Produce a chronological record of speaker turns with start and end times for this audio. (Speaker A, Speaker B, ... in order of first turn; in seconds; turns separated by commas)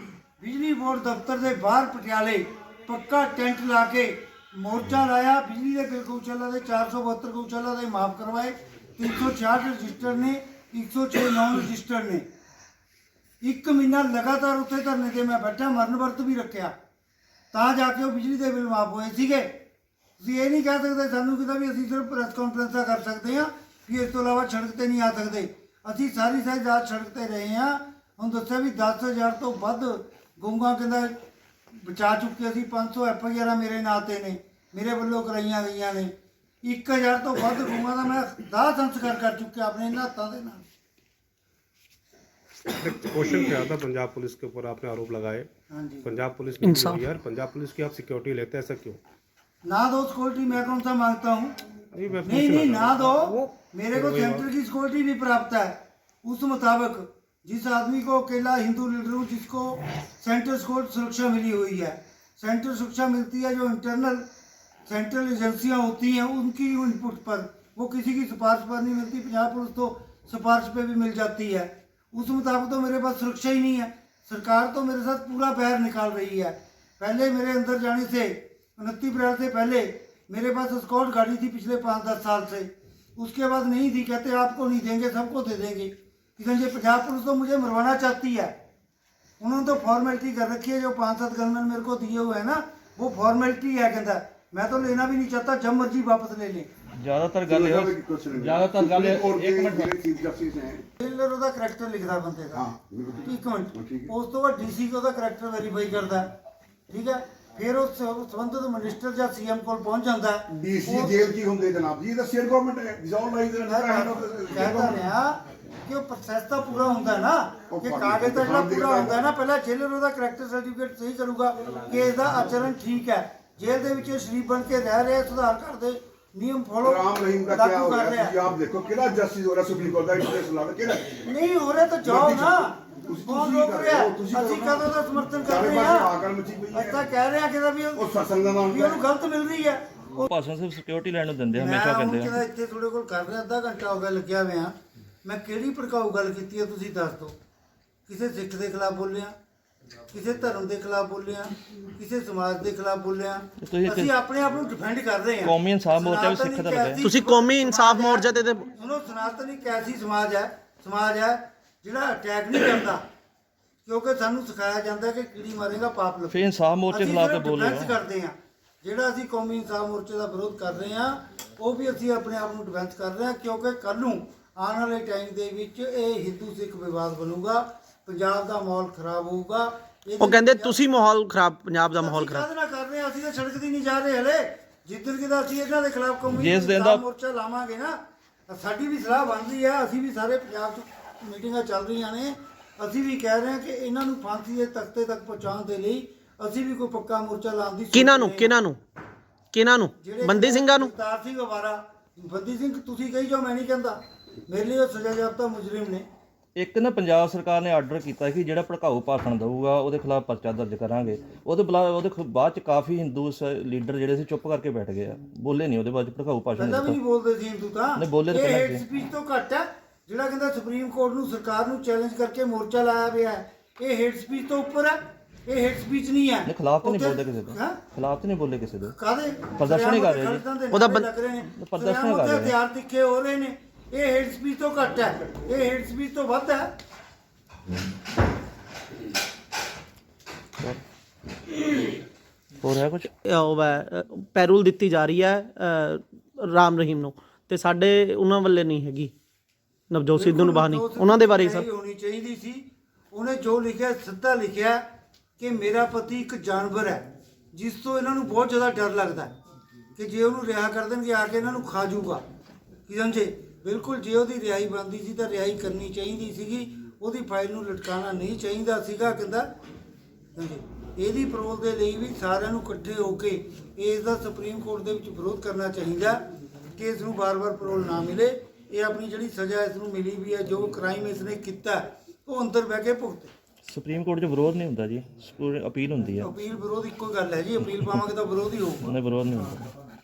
Speaker A: 0.4-12.3, Speaker A: 13.4-16.7, Speaker A: 17.5-19.6, Speaker A: 20.2-31.1, Speaker A: 31.7-40.6, Speaker B: 42.8-45.5, Speaker A: 45.7-46.1, Speaker B: 46.1-49.0, Speaker C: 46.6-47.0, Speaker A: 49.6-51.6, Speaker B: 51.9-53.5, Speaker A: 52.2-64.3, Speaker D: 52.4-53.2, Speaker D: 54.0-54.5, Speaker A: 64.9-88.5, Speaker A: 89.4-96.7, Speaker E: 97.0-100.0, Speaker D: 97.5-100.8, Speaker A: 101.0-102.7, Speaker D: 102.5-104.1, Speaker A: 103.2-106.3, Speaker A: 106.9-111.2, Speaker D: 110.5-115.0, Speaker A: 113.7-128.4, Speaker D: 117.7-119.2, Speaker D: 126.8-131.2, Speaker A: 131.2-136.1, Speaker D: 132.1-134.8, Speaker D: 135.5-137.0, Speaker A: 136.7-140.3, Speaker D: 138.0-139.0, Speaker E: 140.2-142.4, Speaker A: 141.5-147.3, Speaker A: 148.1-149.3, Speaker A: 150.1-163.0, Speaker E: 153.6-154.1, Speaker E: 155.4-157.0, Speaker C: 157.0-158.7, Speaker A: 163.9-166.4, Speaker E: 166.3-168.0, Speaker A: 166.9-180.8, Speaker C: 180.2-182.5, Speaker A: 181.9-198.6, Speaker E: 186.3-187.0, Speaker C: 197.9-198.8, Speaker C: 199.5-200.9, Speaker A: 200.0-206.1, Speaker E: 206.6-217.0, Speaker A: 216.6-227.8, Speaker E: 218.0-218.8, Speaker E: 226.5-228.9, Speaker A: 228.9-236.7, Speaker E: 229.6-230.4, Speaker C: 230.7-231.1, Speaker E: 231.6-232.6, Speaker E: 242.6-243.1, Speaker C: 243.2-249.1, Speaker C: 249.9-251.7, Speaker A: 250.1-254.8, Speaker A: 255.4-259.3, Speaker A: 260.0-262.2, Speaker A: 262.9-269.5, Speaker A: 270.4-276.2, Speaker A: 276.8-283.3, Speaker E: 283.7-286.4, Speaker A: 286.2-288.9, Speaker E: 288.8-289.7